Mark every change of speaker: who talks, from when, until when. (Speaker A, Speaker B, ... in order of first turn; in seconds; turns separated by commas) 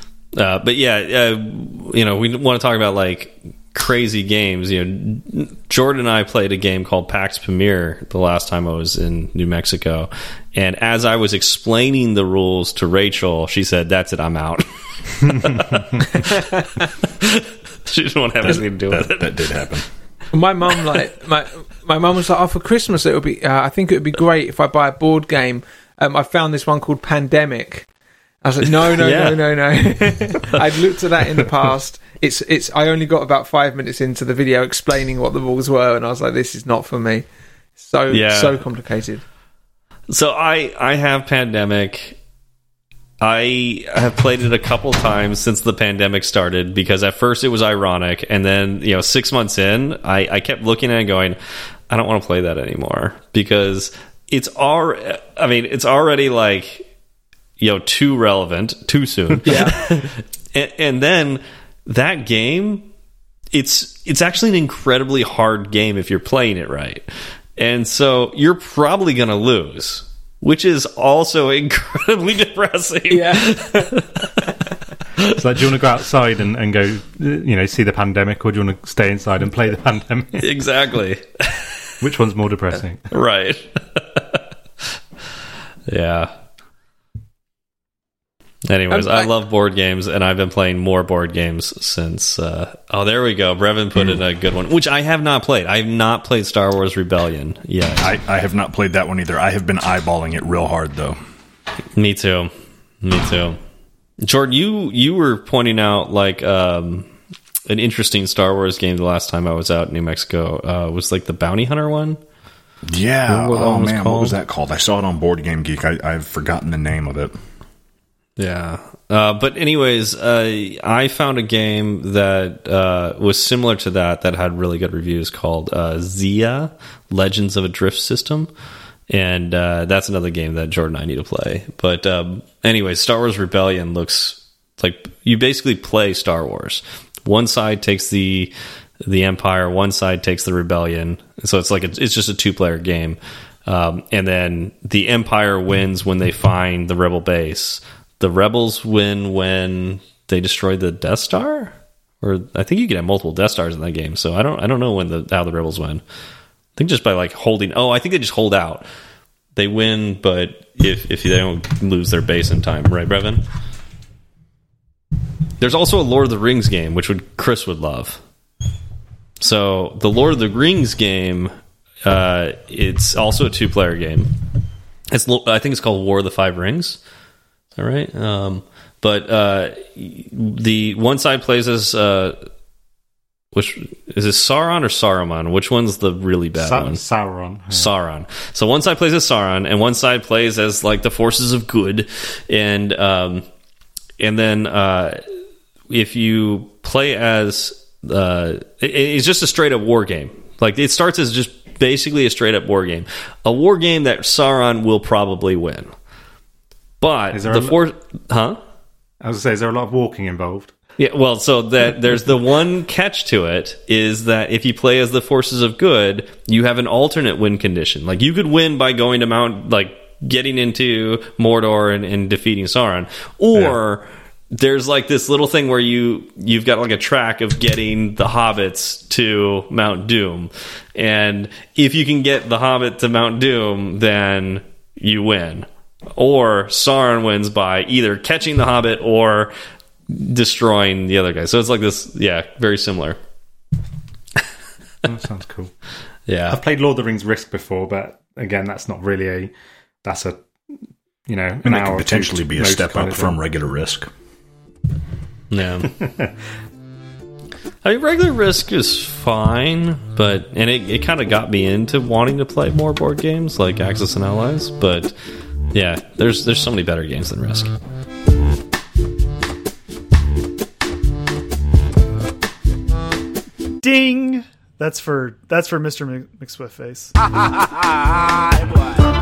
Speaker A: 0.3-16.4, Speaker B: 16.1-16.7, Speaker A: 17.0-19.5, Speaker C: 18.4-19.8, Speaker B: 20.3-27.9, Speaker B: 28.4-37.2, Speaker A: 29.0-29.4, Speaker B: 37.8-39.2, Speaker A: 38.1-38.6, Speaker A: 40.1-42.2, Speaker A: 43.2-51.4, Speaker A: 51.9-56.8, Speaker A: 57.6-62.9, Speaker B: 59.4-59.8, Speaker A: 63.5-74.3, Speaker B: 73.1-74.0, Speaker D: 75.3-80.5, Speaker A: 80.4-81.9, Speaker D: 82.0-83.1, Speaker A: 83.1-84.4, Speaker A: 85.9-86.3, Speaker A: 88.6-98.1, Speaker B: 88.9-89.3, Speaker C: 94.0-94.2, Speaker C: 98.0-101.2, Speaker A: 102.0-103.6, Speaker A: 104.2-107.1, Speaker A: 107.7-112.2, Speaker C: 112.9-117.3, Speaker A: 113.3-114.4, Speaker A: 118.4-128.5, Speaker A: 129.1-138.5, Speaker A: 139.0-156.0, Speaker A: 156.8-158.8, Speaker A: 159.5-163.4, Speaker A: 165.6-168.2, Speaker A: 169.4-171.5, Speaker A: 172.0-174.3, Speaker A: 175.1-177.0, Speaker A: 177.8-182.4, Speaker A: 183.5-187.0, Speaker D: 186.5-187.9, Speaker A: 187.7-193.4, Speaker A: 194.2-195.2, Speaker A: 195.9-205.9, Speaker A: 207.0-208.6, Speaker D: 207.3-207.8, Speaker D: 209.2-210.7, Speaker A: 211.0-239.5, Speaker A: 240.1-243.2, Speaker D: 245.0-245.7, Speaker A: 246.3-246.6, Speaker D: 246.5-249.5, Speaker D: 250.0-250.4, Speaker D: 251.3-253.4, Speaker C: 251.6-254.1, Speaker A: 255.5-255.9, Speaker D: 255.8-256.3, Speaker A: 257.8-265.1, Speaker A: 265.7-267.7, Speaker E: 273.8-279.0